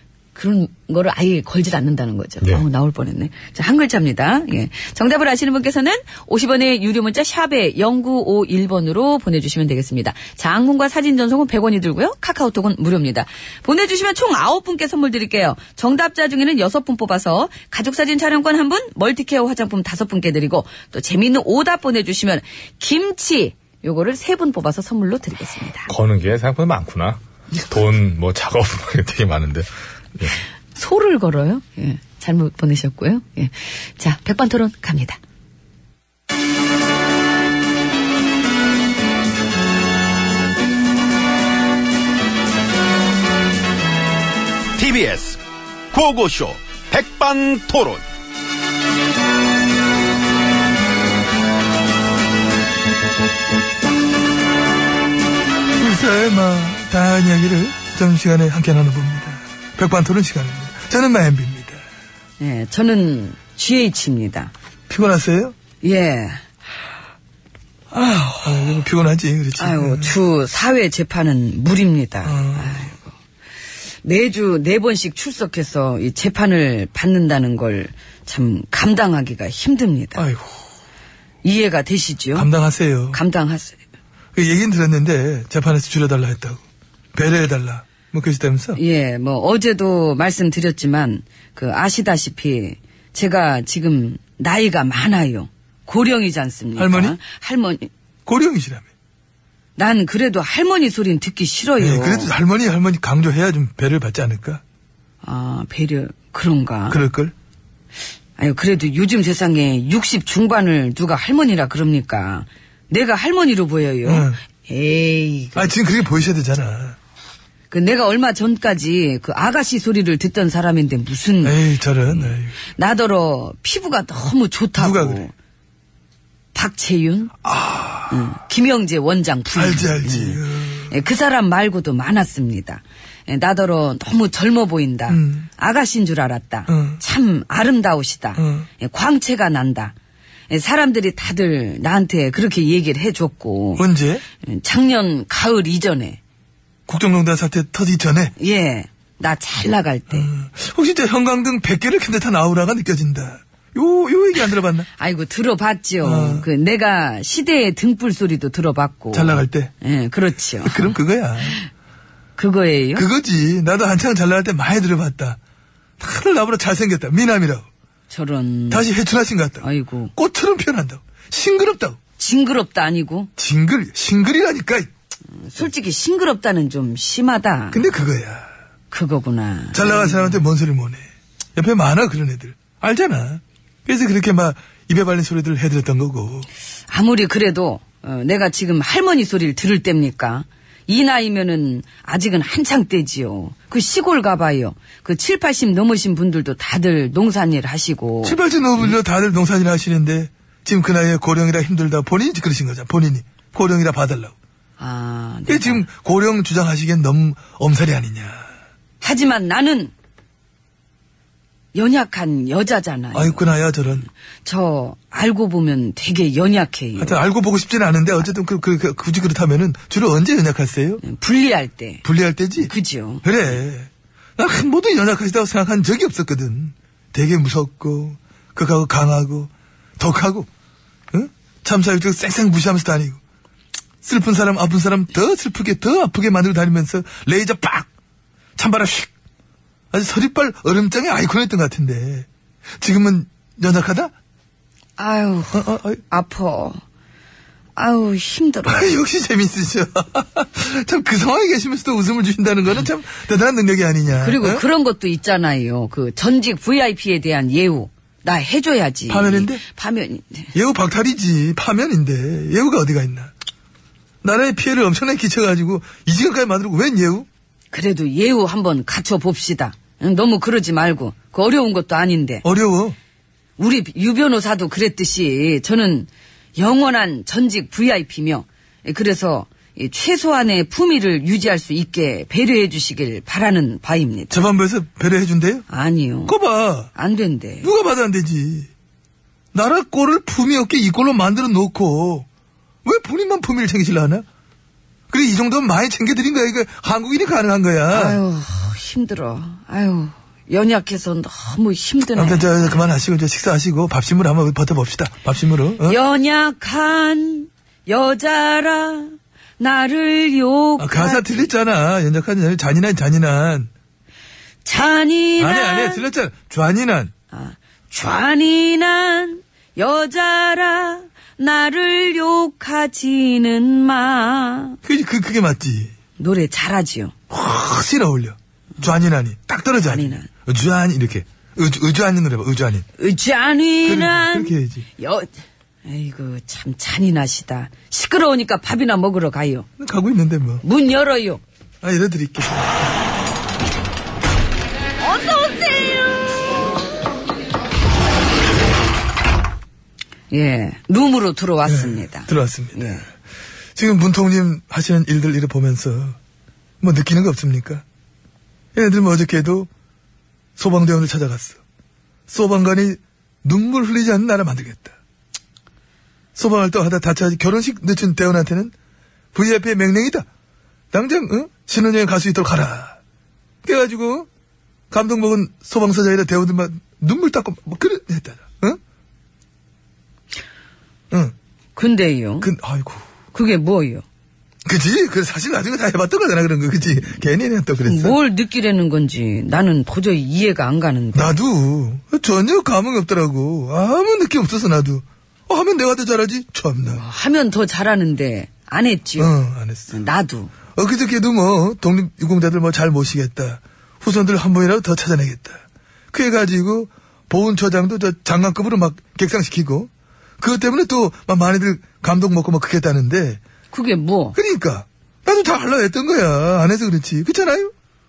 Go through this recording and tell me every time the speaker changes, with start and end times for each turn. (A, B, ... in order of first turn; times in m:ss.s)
0:00.3-0:25.9 A
0:25.9-0:30.4 B
0:30.7-0:35.2 A
0:44.8-0:45.4 C
0:45.9-0:48.0 C
0:55.8-1:01.8 D
1:02.4-1:04.5 A
1:04.9-1:05.5 D
1:05.8-1:06.4 A
1:07.9-1:10.1 D
1:09.6-1:13.0 A
1:12.2-1:12.8 D
1:14.0-1:20.2 A
1:20.2-1:20.6 D
1:21.4-1:22.5 A
1:22.3-1:23.2 D
1:23.1-1:23.8 A
1:24.3-1:26.6 D
1:27.1-1:28.8 D
1:28.8-1:37.9 A
1:36.8-1:37.2 D
1:38.2-1:38.9 D
1:39.8-1:42.3 A
1:41.8-1:44.6 D
1:45.2-1:47.0 A
1:46.9-1:47.3 D
1:48.4-1:55.7 A
1:54.0-1:54.4 D
1:55.5-1:57.0 D
1:57.7-2:05.3 A
2:01.4-2:02.5 D
2:04.8-2:05.2 D
2:06.5-2:07.3 A
2:07.4-2:08.2 D
2:08.1-2:19.9 A
2:09.5-2:10.9 D
2:15.1-2:15.5 D
2:16.7-2:17.0 D
2:18.4-2:18.7 D
2:20.5-2:23.8 A
2:23.8-2:24.2 D
2:24.4-2:26.2 A
2:26.9-2:28.3 D
2:28.4-2:30.3 A
2:30.1-2:34.9 D
2:35.0-2:41.6 A
2:36.0-2:36.4 D
2:39.1-2:39.7 D
2:40.6-2:41.6 D
2:42.4-2:43.0 A
2:43.0-2:45.4 D
2:46.0-2:47.6 D
2:48.1-2:48.9 A
2:48.7-2:52.0 D
2:49.6-2:50.1 A
2:52.2-2:53.3 A
2:53.4-2:54.9 D
2:55.4-2:57.8 A
2:57.7-2:58.5 D
2:58.9-3:00.4 A
2:59.7-3:01.0 D
3:01.6-3:06.5 D
3:06.9-3:18.9 A
3:18.2-3:24.3 D
3:24.8-3:25.8 A
3:25.5-3:28.5 D
3:29.0-3:29.9 A
3:31.7-3:33.4 A
3:33.1-3:34.0 D
3:34.4-3:37.2 A
3:37.0-3:41.0 D
3:41.0-3:42.0 A
3:42.0-3:42.7 D
3:42.6-3:43.2 A
3:43.2-3:50.5 D
3:51.1-3:53.2 D
3:54.0-3:57.9 D
3:58.6-3:59.1 D
3:59.9-4:02.3 D
4:02.8-4:04.1 D
4:05.0-4:06.8 A
4:05.5-4:06.0 D
4:07.8-4:08.9 A
4:08.7-4:14.6 D
4:14.2-4:20.5 A
4:19.1-4:19.6 D
4:20.5-4:23.3 D
4:24.2-4:27.3 D
4:27.7-4:32.4 A
4:32.4-4:33.0 D
4:33.6-4:44.4 A
4:44.3-4:45.6 D
4:45.7-4:46.3 A
4:46.3-4:46.9 D
4:46.9-4:47.7 A
4:47.6-4:48.7 D
4:49.5-4:52.3 D
4:52.8-4:54.2 D
4:55.1-4:58.2 D
4:57.9-5:02.8 A
5:02.2-5:06.0 D
5:05.8-5:11.5 A
5:10.8-5:13.7 D
5:14.6-5:16.0 A
5:15.4-5:17.1 D
5:17.3-5:24.8 A
5:24.8-5:25.9 D
5:26.2-5:27.1 A
5:27.3-5:32.8 D
5:29.8-5:30.3 A
5:33.0-5:35.3 A
5:33.8-5:34.8 D
5:35.8-5:39.7 A
5:39.8-5:40.6 D
5:40.6-5:41.4 A
5:41.8-5:43.0 D
5:45.0-5:46.1 A
5:50.3-5:53.0 A
5:51.6-5:53.0 D
5:53.8-5:56.2 D
5:56.8-5:57.8 D
5:58.7-5:59.7 D
6:00.6-6:01.6 D
6:02.3-6:05.0 D
6:06.4-6:08.7 D
6:09.3-6:10.3 D
6:10.9-6:13.0 D
6:13.6-6:14.3 D
6:14.9-6:18.8 D
6:21.8-6:22.5 A
6:22.4-6:23.0 D
6:23.3-6:24.0 A
6:24.6-6:28.2 D
6:27.8-6:31.4 A
6:31.1-6:37.0 D
6:36.9-6:39.3 A
6:39.2-6:40.0 D
6:39.9-6:40.5 A
6:40.7-6:53.4 D
6:53.7-6:54.4 A
6:54.3-6:57.7 D